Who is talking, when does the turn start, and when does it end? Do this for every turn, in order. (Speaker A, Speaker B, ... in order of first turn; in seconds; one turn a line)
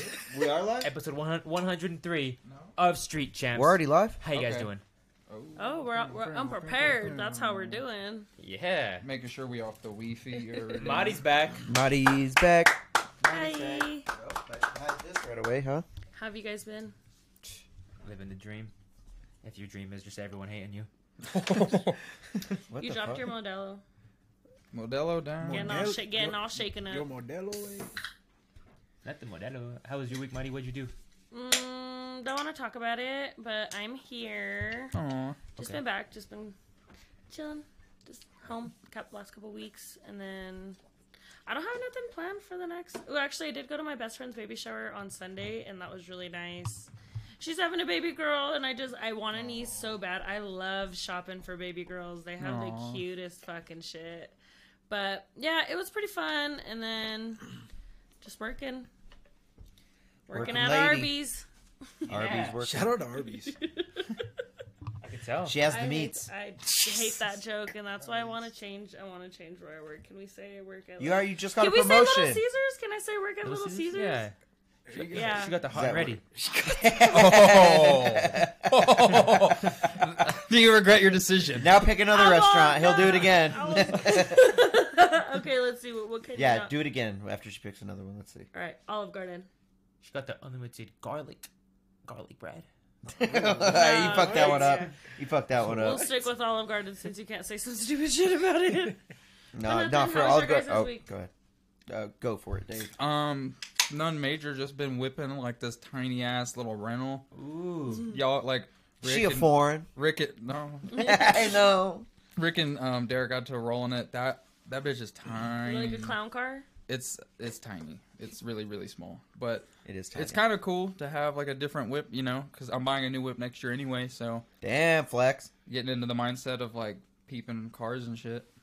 Speaker A: 0.3-0.9
Speaker B: 0.8-4.8
Speaker C: 2.5-2.7
Speaker A: 3.5-4.2
Speaker C: 4.3-4.7
Speaker C: 5.3-7.8
Speaker D: 5.5-8.3
Speaker E: 6.6-7.6
Speaker B: 8.4-9.1
Speaker C: 9.0-11.4
Speaker B: 10.7-11.7
Speaker A: 11.7-15.8
Speaker D: 13.2-14.1
Speaker D: 16.1-16.9
Speaker B: 18.0-18.7
Speaker B: 19.4-20.9
Speaker C: 21.3-22.0
Speaker A: 22.4-23.3
Speaker D: 22.8-23.8
Speaker C: 24.7-25.9
Speaker E: 25.4-27.9
Speaker D: 25.5-27.1
Speaker B: 29.0-30.9
Speaker D: 31.3-34.9
Speaker C: 34.9-35.4
Speaker D: 35.5-36.5
Speaker D: 37.3-40.8
Speaker D: 41.5-54.3
Speaker C: 52.4-53.0
Speaker D: 54.9-57.4
Speaker D: 58.2-58.9
Speaker D: 60.3-61.4
Speaker A: 60.3-61.1
Speaker A: 62.1-62.9
Speaker B: 62.1-62.6
Speaker E: 62.6-63.5
Speaker D: 63.5-64.2
Speaker B: 65.0-65.6
Speaker A: 65.4-66.3
Speaker D: 65.6-74.2
Speaker A: 71.0-72.4
Speaker B: 73.4-74.3
Speaker E: 74.9-75.3
Speaker D: 75.0-75.6
Speaker B: 75.0-76.2
Speaker A: 75.7-79.3
Speaker E: 76.4-77.1
Speaker C: 77.1-81.8
Speaker A: 81.6-84.5
Speaker D: 82.1-86.7
Speaker A: 86.3-88.5
Speaker D: 88.5-89.5
Speaker B: 90.0-91.5
Speaker B: 92.0-92.7
Speaker A: 93.1-96.2
Speaker E: 93.2-94.8
Speaker D: 93.6-94.9
Speaker D: 95.6-99.0
Speaker A: 99.5-101.3
Speaker D: 99.6-101.0
Speaker A: 101.9-102.9
Speaker C: 103.0-107.3
Speaker B: 107.3-108.1
Speaker D: 107.9-108.2
Speaker C: 108.1-111.0
Speaker A: 109.0-109.9
Speaker D: 110.9-111.4
Speaker A: 110.9-112.1
Speaker C: 112.3-116.2
Speaker D: 115.6-116.7
Speaker C: 116.9-124.4
Speaker A: 119.8-120.4
Speaker A: 124.6-125.5
Speaker C: 125.7-128.5